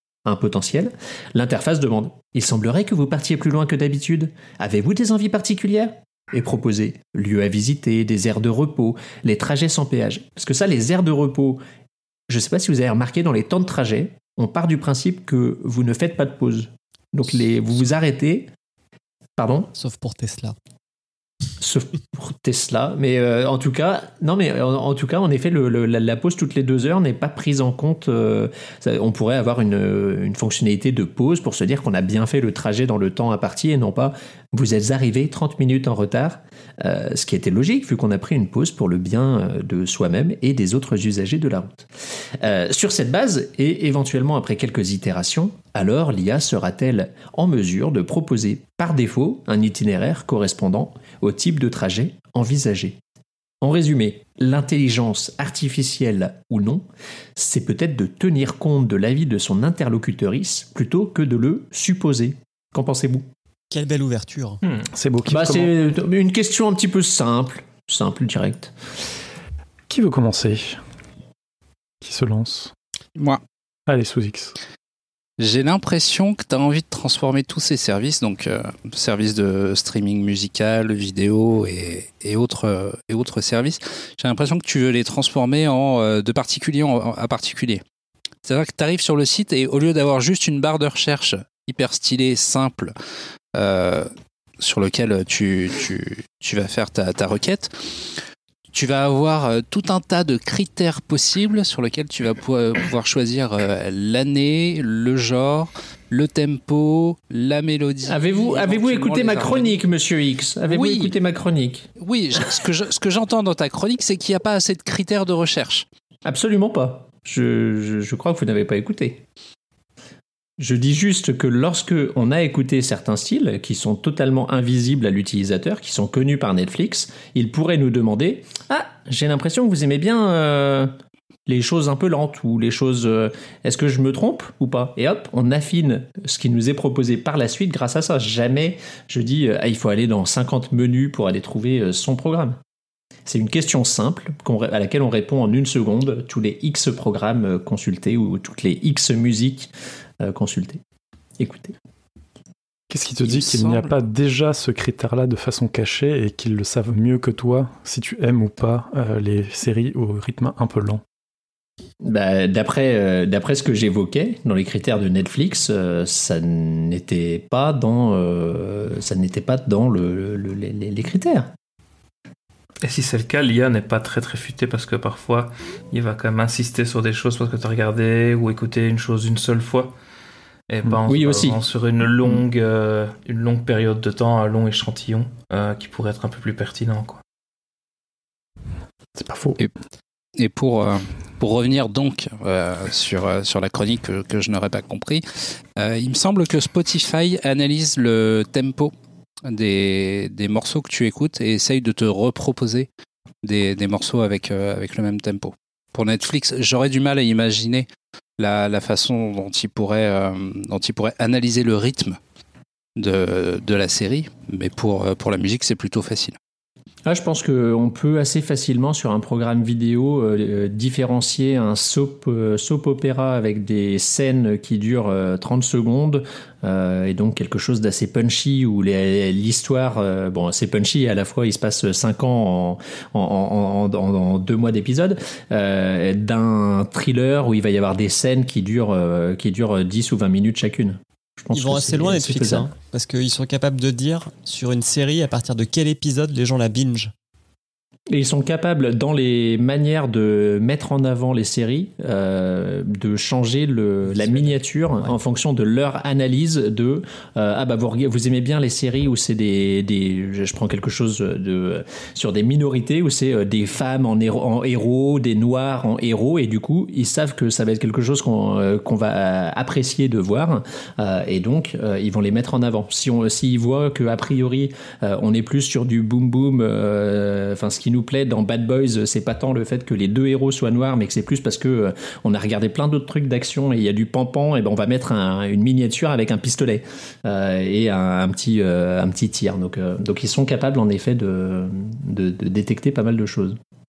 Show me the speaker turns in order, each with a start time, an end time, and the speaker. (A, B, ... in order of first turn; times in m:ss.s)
0:00.2-0:11.6 A
0:12.3-0:18.5 A
0:19.4-0:19.7 A
0:19.7-0:20.6 B
0:21.6-0:41.9 A
0:42.4-0:53.0 A
0:53.6-1:03.3 A
1:03.7-1:04.6 B
1:04.9-1:05.7 C
1:05.3-1:08.7 A
1:09.9-1:10.8 C
1:12.0-1:12.7 C
1:13.2-1:13.4 D
1:13.9-1:14.6 C
1:15.4-1:27.8 D
1:28.4-1:32.9 D
1:33.5-1:34.1 D
1:34.6-1:38.2 D
1:38.7-1:49.8 D
1:48.1-1:51.9 A
1:50.7-1:51.1 D
1:52.0-1:55.8 D
1:56.2-1:59.2 A
2:00.6-2:10.9 A
2:11.5-2:22.6 A
2:23.2-2:30.8 A
2:31.4-2:31.8 A
2:32.9-2:41.0 C
2:33.2-2:33.9 D
2:42.0-2:51.5 A
2:52.8-3:00.0 E
3:00.7-3:07.2 E
3:01.1-3:01.6 A
3:09.2-3:09.6 C
3:10.4-3:15.2 D
3:15.8-3:18.9 D
3:19.4-3:22.9 D
3:23.4-3:27.9 D
3:28.4-3:32.2 D
3:33.0-3:36.4 D
3:37.0-4:02.7 A
4:01.5-4:07.1 B
4:08.1-4:53.6 A
4:14.1-4:15.1 B